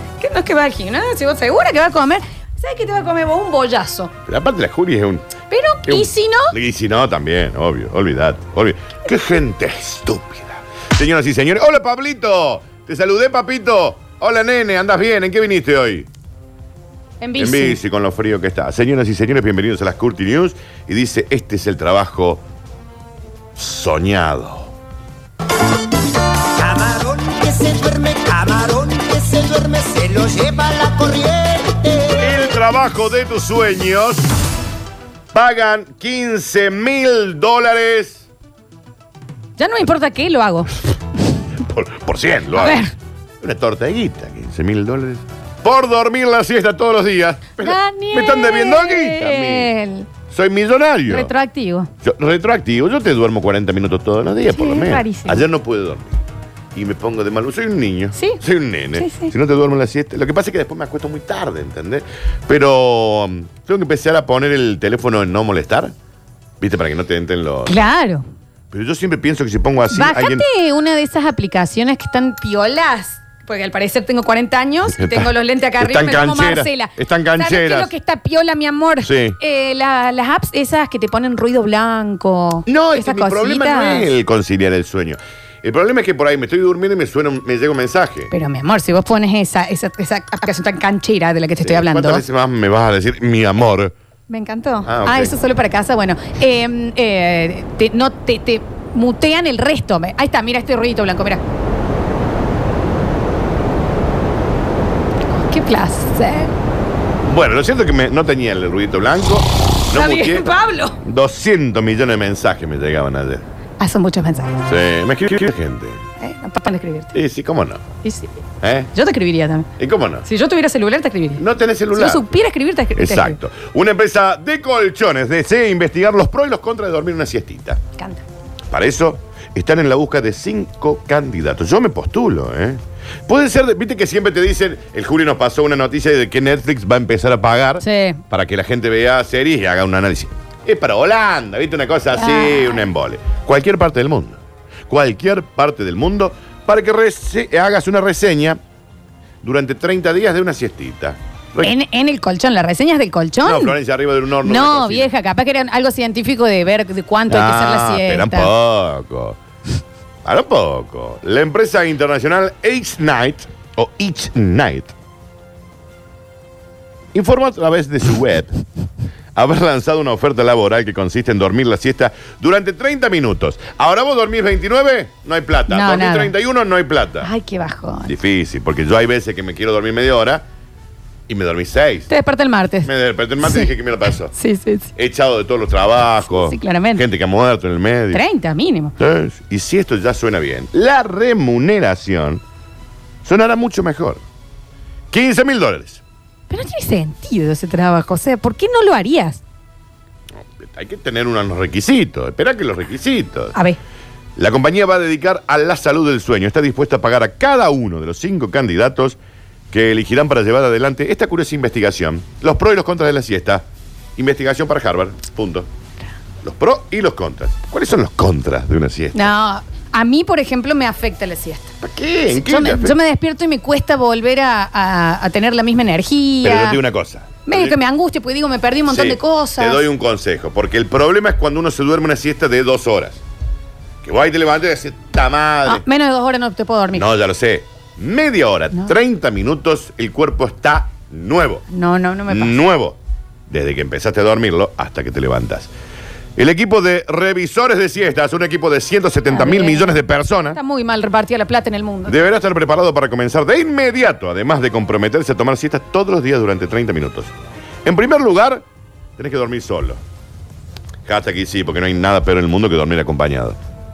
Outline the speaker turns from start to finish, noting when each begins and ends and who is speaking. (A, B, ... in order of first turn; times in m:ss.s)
0:00.2-0:04.1 A
0:04.3-0:05.2 B
0:05.5-0:06.6 A
0:05.9-0:16.1 B
0:17.2-0:17.8 A
0:17.4-0:22.4 B
0:23.6-0:24.7 B
0:26.6-0:32.4 C
0:32.1-0:34.2 B
0:35.3-0:38.2 B
0:39.6-0:40.7 A
0:41.6-0:42.8 B
0:42.6-0:42.9 A
0:43.4-0:49.7 B
0:47.6-0:50.1 A
0:50.3-0:51.3 B
0:51.1-0:51.9 A
0:52.0-0:56.2 B
0:54.5-0:55.5 A
0:56.7-1:05.9 B
0:58.1-0:58.4 A
0:58.9-0:59.3 A
1:06.6-1:07.7 B
1:07.7-1:08.2 A
1:08.7-1:10.4 B
1:09.9-1:24.1 A
1:14.9-1:17.9 B
1:19.0-1:19.4 B
1:22.7-1:28.3 B
1:28.3-1:32.2 A
1:31.6-1:33.9 B
1:34.3-1:41.4 A
1:34.8-1:35.3 B
1:45.3-1:46.5 A
1:47.3-1:53.4 B
1:49.9-1:51.0 A
1:53.8-1:54.6 A
1:54.6-1:56.0 B
1:56.2-1:57.1 A
1:57.1-1:57.8 B
1:58.0-1:58.4 A
1:58.6-1:58.9 B
1:58.9-1:59.7 A
1:59.8-2:00.2 B
2:00.2-2:03.4 A
2:01.4-2:02.3 B
2:03.0-2:07.8 B
2:08.0-2:08.2 A
2:08.7-2:28.6 B
2:17.8-2:18.2 A
2:22.1-2:22.9 A
2:29.4-2:31.7 B
2:31.6-2:33.7 A
2:33.4-2:35.1 B
2:34.4-2:38.5 A
2:37.3-2:39.4 B
2:40.2-2:44.9 B
2:47.1-2:48.5 B
2:49.3-2:57.3 B
2:55.7-2:56.3 A
2:57.2-2:58.1 A
2:58.1-3:00.4 B
3:01.3-3:02.1 B
3:02.1-3:02.9 A
3:02.8-3:04.3 B
3:03.4-3:03.7 A
3:04.3-3:04.9 A
3:05.0-3:08.2 B
3:06.3-3:07.0 A
3:08.1-3:08.9 A
3:09.0-3:12.4 B
3:13.2-3:14.2 B
3:15.1-3:16.0 B
3:16.5-3:19.4 A
3:20.3-3:23.5 B
3:24.4-3:29.2 B
3:29.7-3:33.6 B
3:34.2-3:35.7 B
3:36.4-3:39.3 B
3:39.1-3:41.7 A
3:41.8-3:43.0 B
3:42.5-3:46.8 A
3:46.4-3:47.8 B
3:47.4-3:49.8 A
3:48.9-3:53.2 B
3:54.0-3:55.8 B
3:55.6-3:57.0 A
3:56.9-4:01.6 B
4:01.7-4:02.6 A
4:02.3-4:03.0 B
4:03.5-4:05.7 B
4:06.4-4:10.6 B
4:09.3-4:10.0 A
4:10.5-4:12.2 A
4:12.1-4:17.3 B
4:17.8-4:18.6 B
4:19.2-4:20.0 B
4:21.0-4:23.6 B